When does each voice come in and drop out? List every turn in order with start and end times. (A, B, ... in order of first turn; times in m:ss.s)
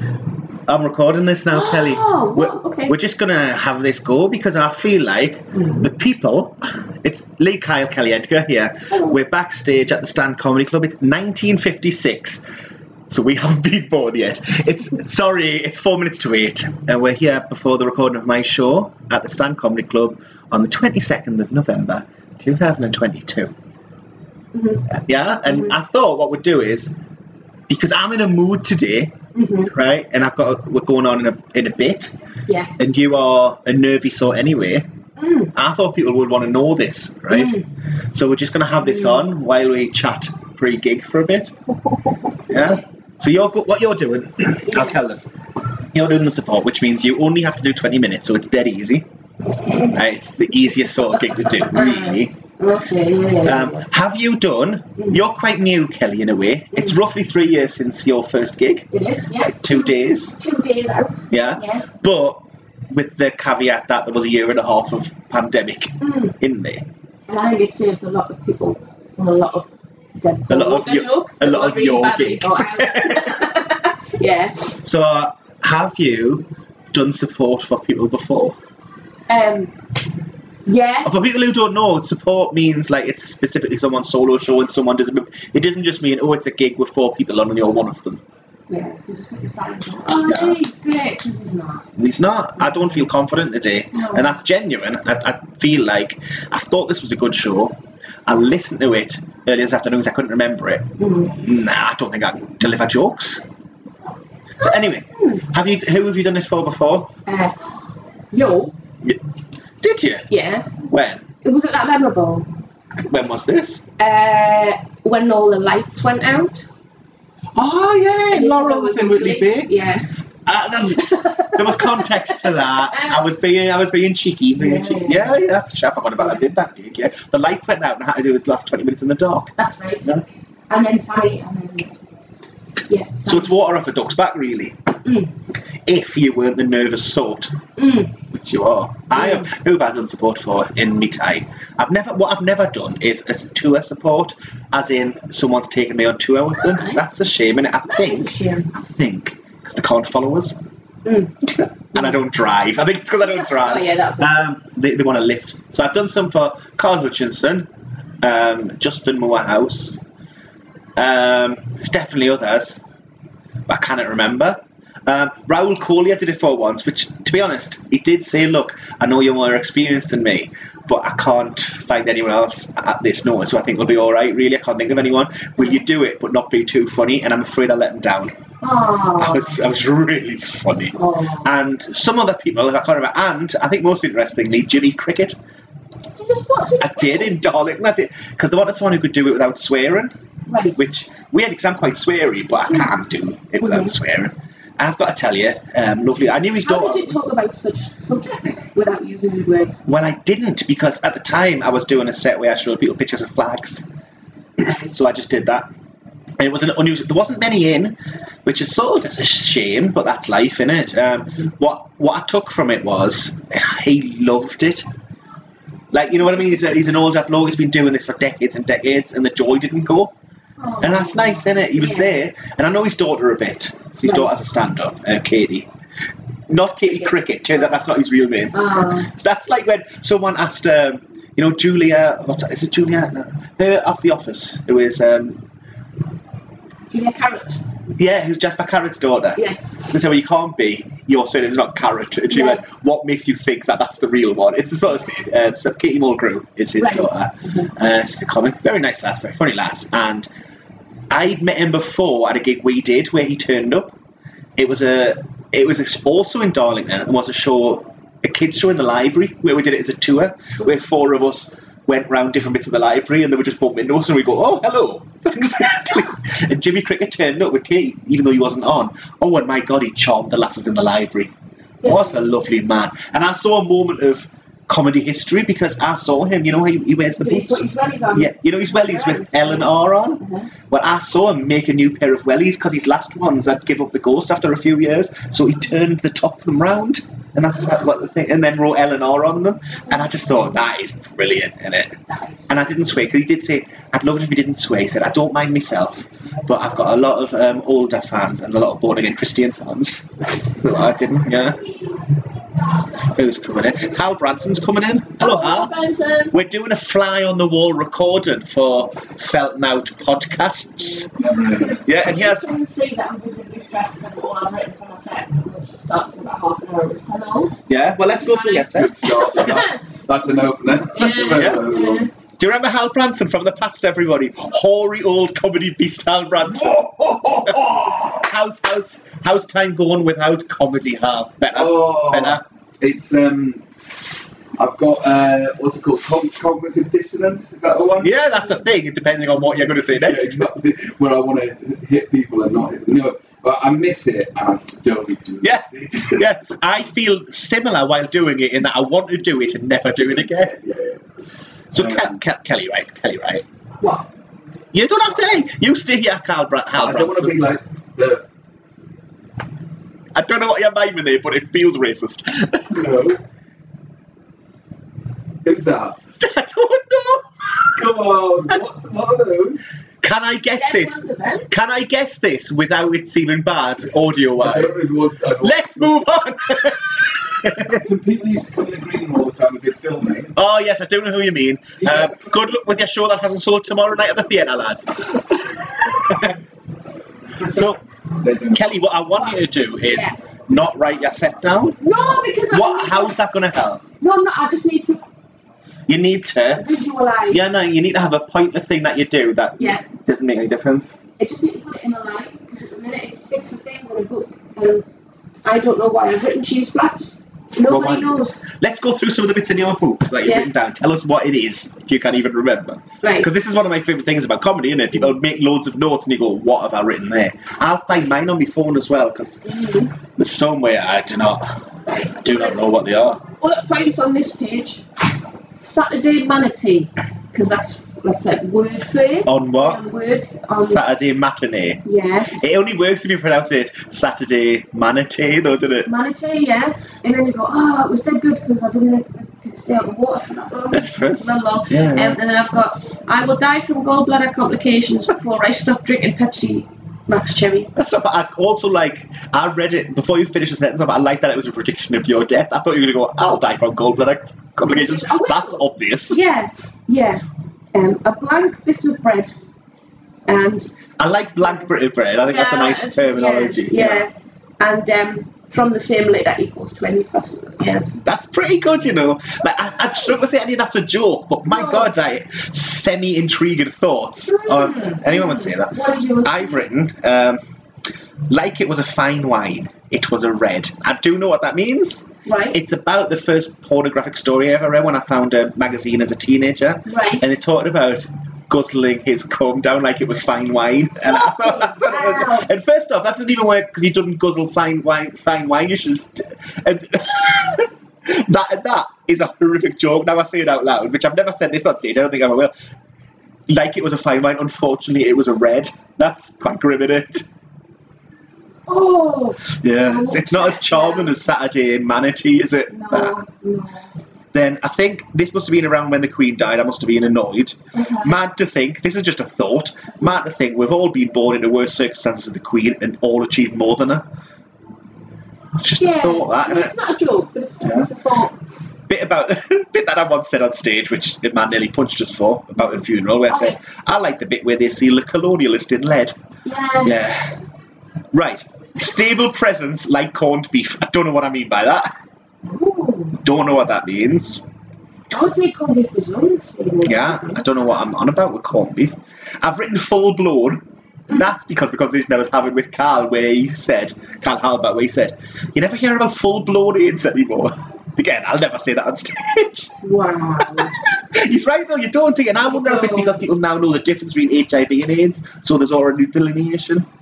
0:00.7-0:12.4 A
0:01.5-0:02.9 B
0:05.6-0:05.8 B
0:08.9-0:09.2 B
0:13.1-0:23.5 A
0:24.5-0:24.8 B
0:24.9-0:26.9 A
0:27.7-0:32.1 A
0:29.3-0:29.7 B
0:32.8-0:34.8 A
0:35.2-0:35.5 B
0:35.5-0:41.5 A
0:37.3-0:37.6 B
0:38.8-0:39.2 B
0:41.9-0:42.4 B
0:42.5-0:45.2 A
0:44.7-0:45.0 B
0:45.9-0:49.0 A
0:49.7-0:52.3 A
0:51.6-0:53.8 B
0:53.4-0:58.9 A
0:58.9-1:01.8 B
0:59.4-1:00.4 A
1:01.3-1:06.8 A
1:06.0-1:06.3 B
1:07.3-1:09.7 B
1:10.2-1:14.7 B
1:10.5-1:13.5 A
1:14.8-1:18.6 A
1:19.3-1:19.7 B
1:20.6-1:21.2 B
1:21.0-1:28.2 A
1:28.7-1:31.8 B
1:30.2-1:30.6 A
1:32.0-1:43.4 A
1:33.9-1:34.3 B
1:41.0-1:41.4 B
1:44.6-1:47.1 A
1:47.2-1:47.6 B
1:48.3-1:48.7 B
1:49.8-1:50.3 A
1:50.3-1:50.8 B
1:50.8-1:51.2 A
1:51.4-1:52.4 B
1:53.0-1:53.8 A
1:54.0-1:56.7 B
1:57.6-1:59.7 A
1:58.3-2:00.1 B
2:00.4-2:10.2 A
2:01.0-2:03.2 B
2:04.6-2:05.4 B
2:09.6-2:10.1 B
2:10.7-2:11.9 B
2:12.9-2:13.5 B
2:13.2-2:14.8 A
2:15.0-2:15.3 B
2:15.8-2:17.6 A
2:17.8-2:18.1 B
2:18.3-2:30.6 A
2:19.1-2:19.5 B
2:26.6-2:27.0 B
2:27.9-2:28.7 B
2:31.0-2:32.1 B
2:31.9-2:37.7 A
2:33.2-2:34.3 B
2:38.2-2:40.0 A
2:41.0-2:42.8 A
2:43.7-2:58.4 A
2:58.6-2:59.6 B
2:59.1-3:05.4 A
3:00.9-3:01.5 B
3:06.1-3:07.4 B
3:06.8-3:10.1 A
3:10.5-3:10.8 B
3:10.8-3:17.2 A
3:13.6-3:13.9 B
3:16.6-3:19.8 B
3:19.9-3:23.9 A
3:24.6-3:25.7 A
3:26.4-3:34.8 A
3:35.9-3:40.1 A
3:40.6-3:42.2 B
3:40.8-3:45.7 A
3:44.0-3:44.3 B
3:46.5-3:55.4 A
3:48.5-3:49.1 B
3:56.9-3:57.6 B
3:58.0-4:10.3 A
3:59.4-3:59.9 B
4:02.3-4:02.6 B
4:06.8-4:07.7 B
4:11.1-4:13.9 A
4:14.6-4:31.3 A
4:31.8-4:32.2 B
4:31.8-5:01.6 A
4:37.2-4:40.5 B
4:49.9-4:50.6 B
4:52.1-4:52.5 B
5:00.2-5:01.0 B
5:03.0-5:05.7 A
5:05.2-5:06.3 B
5:06.3-5:11.1 A
5:11.1-5:11.8 C
5:11.6-5:19.8 B
5:11.8-5:12.5 A
5:17.7-5:19.8 A
5:18.6-5:22.1 C
5:20.9-5:22.1 B
5:21.3-5:21.7 A
5:22.4-5:26.9 A
5:26.5-5:28.2 C
5:28.2-5:32.4 A
5:31.5-5:33.6 C
5:34.6-5:38.4 C
5:38.0-5:40.5 A
5:39.8-5:46.3 C
5:45.4-5:50.5 A
5:50.1-5:51.0 C
5:51.7-5:53.4 A
5:51.7-5:52.2 C
5:53.8-5:54.1 B
5:54.7-5:57.4 A
5:56.7-5:58.2 C
6:00.1-6:03.0 A
6:02.7-6:03.2 C
6:05.4-6:06.0 C
6:06.2-6:07.7 A
6:07.8-6:09.6 C
6:10.0-6:14.8 A
6:10.6-6:11.5 B
6:14.4-6:15.9 C
6:15.4-6:17.8 A
6:17.4-6:20.3 C
6:20.3-6:26.4 A
6:21.9-6:22.1 C
6:27.4-6:27.6 C
6:27.4-6:27.8 A
6:28.2-6:28.7 C
6:28.5-6:31.8 A
6:29.9-6:30.1 B
6:31.8-6:33.2 B
6:32.5-6:33.8 A
6:34.0-6:35.0 B
6:35.9-6:36.6 A
6:36.6-6:37.5 B
6:37.3-6:41.0 A
6:41.2-6:44.8 B
6:45.4-6:48.4 B
6:47.6-7:03.2 A
6:50.2-6:50.5 B
6:53.0-6:53.3 B
6:59.4-6:59.9 B
7:01.9-7:04.8 B
7:05.6-7:10.8 B
7:09.2-7:09.8 A
7:10.6-7:15.9 A
7:11.8-7:12.4 B
7:15.8-7:27.7 B
7:20.7-7:23.0 A
7:27.7-7:36.2 A
7:34.7-7:39.3 B
7:40.3-7:40.7 B
7:41.0-7:44.0 A
7:42.2-7:47.9 B
7:48.0-7:57.4 A
7:51.5-7:51.9 B
7:54.3-7:56.6 B
7:58.3-8:22.5 A
8:02.2-8:02.6 B
8:06.9-8:07.3 B
8:11.0-8:12.5 B
8:23.5-8:27.3 A
8:28.7-8:31.1 B
8:29.5-8:33.2 A
8:32.7-8:33.9 B
8:34.3-8:44.0 A
8:37.7-8:38.2 B
8:45.6-8:46.7 A
8:45.8-8:48.3 B
8:47.6-8:47.9 A
8:48.9-8:56.2 A
8:53.3-8:53.6 B
8:56.4-8:56.9 B
8:56.8-8:57.4 A
8:58.1-9:01.9 A
9:02.4-9:03.2 B
9:03.2-9:04.4 A
9:05.1-9:07.4 B
9:06.8-9:19.7 A
9:19.8-9:20.7 B
9:20.4-9:26.8 A
9:22.4-9:23.2 B